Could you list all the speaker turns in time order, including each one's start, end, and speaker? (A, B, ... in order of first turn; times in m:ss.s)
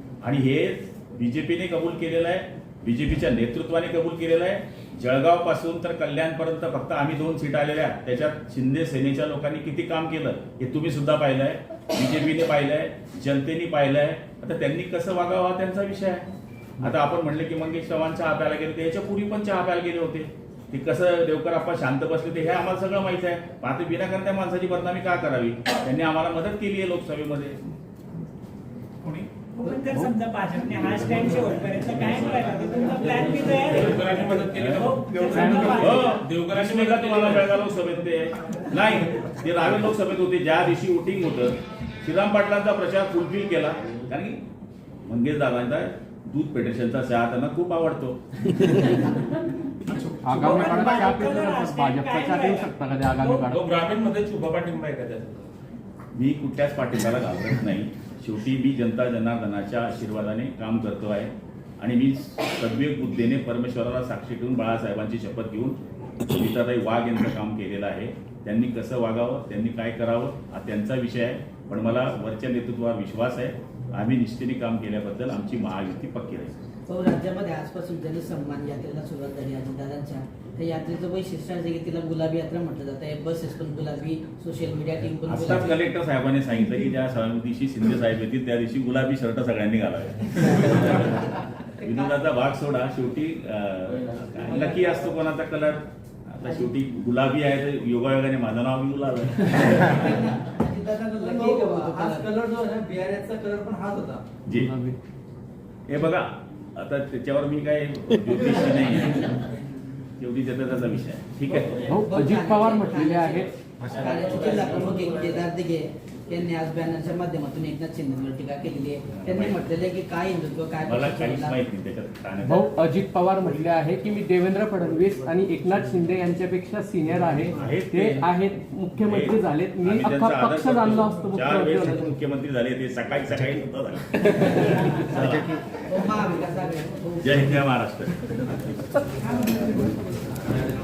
0:00.2-0:16.2 A
0:16.8-0:27.6 A
0:29.4-0:36.2 B
0:33.7-0:37.5 C
0:34.5-0:35.0 A
0:35.6-0:44.4 A
0:45.0-0:48.2 A
0:50.2-0:55.4 C
0:50.3-0:53.5 B
0:51.6-0:53.7 D
0:56.1-1:16.6 A
1:16.9-1:25.8 E
1:25.3-1:31.3 A
1:31.8-1:32.2 E
1:31.8-1:40.0 A
1:39.6-1:42.3 E
1:41.0-1:44.2 F
1:44.4-1:44.7 A
1:45.9-1:49.4 A
1:50.2-1:51.9 A
1:51.9-2:01.6 E
1:51.9-1:53.2 C
1:52.1-1:53.4 D
1:53.9-1:54.8 A
1:59.1-1:59.6 A
2:00.8-2:02.8 A
2:02.5-2:07.5 D
2:03.4-2:09.2 C
2:07.5-2:08.3 A
2:08.2-2:08.5 D
2:09.0-2:15.5 A
2:09.2-2:09.9 D
2:09.8-2:11.7 C
2:10.6-2:11.9 D
2:15.8-2:17.6 E
2:17.2-2:19.0 A